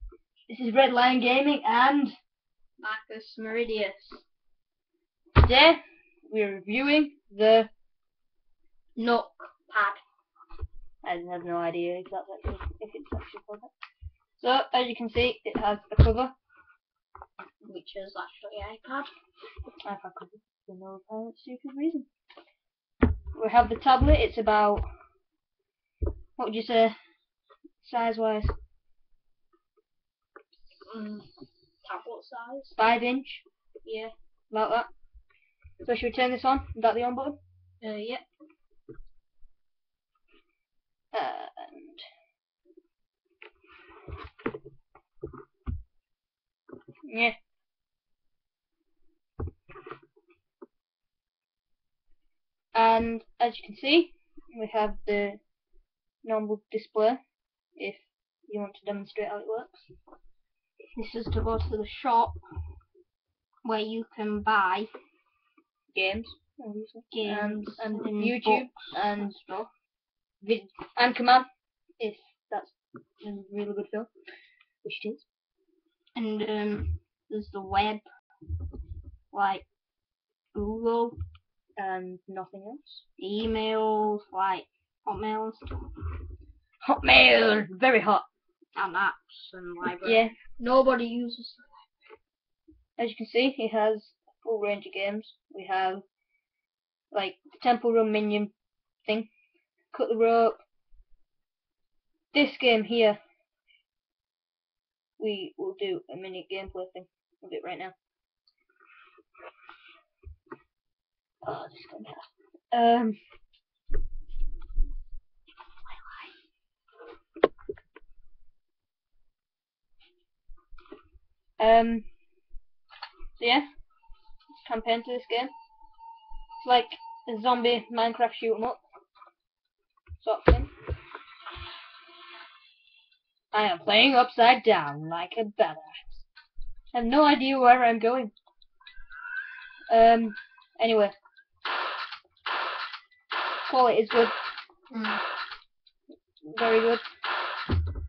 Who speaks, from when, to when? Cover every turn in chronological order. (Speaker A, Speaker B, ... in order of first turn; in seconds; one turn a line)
Speaker A: 0.5-2.1
Speaker B: 2.8-4.2
Speaker A: 5.4-7.7
Speaker B: 9.0-10.0
Speaker A: 11.0-13.7
Speaker A: 14.4-16.3
Speaker B: 17.6-19.1
Speaker A: 19.8-22.1
Speaker A: 23.4-24.9
Speaker A: 26.4-27.0
Speaker A: 27.8-28.6
Speaker B: 30.8-32.8
Speaker A: 32.7-33.4
Speaker B: 33.9-34.1
Speaker A: 34.5-34.9
Speaker A: 35.8-37.4
Speaker B: 37.8-38.2
Speaker A: 41.1-42.0
Speaker A: 47.1-47.4
Speaker A: 52.7-55.4
Speaker A: 56.2-57.2
Speaker A: 57.8-59.9
Speaker B: 61.0-62.4
Speaker B: 63.6-64.9
Speaker A: 65.9-69.4
Speaker B: 67.1-69.7
Speaker A: 70.4-71.5
Speaker A: 72.0-74.1
Speaker A: 74.8-75.2
Speaker B: 76.2-78.0
Speaker B: 79.3-79.7
Speaker B: 80.5-81.2
Speaker A: 81.8-83.0
Speaker B: 83.2-85.9
Speaker A: 86.8-88.3
Speaker B: 88.8-91.8
Speaker A: 90.0-90.3
Speaker A: 93.0-96.0
Speaker A: 97.1-98.5
Speaker A: 99.9-100.6
Speaker A: 102.3-103.2
Speaker A: 105.2-107.9
Speaker A: 111.4-113.2
Speaker A: 121.6-122.1
Speaker A: 123.4-123.7
Speaker A: 124.6-125.5
Speaker A: 126.6-128.8
Speaker A: 130.2-130.7
Speaker A: 133.5-136.2
Speaker A: 136.9-138.3
Speaker A: 139.9-141.1
Speaker A: 143.7-144.3
Speaker B: 144.9-145.2
Speaker A: 146.4-147.0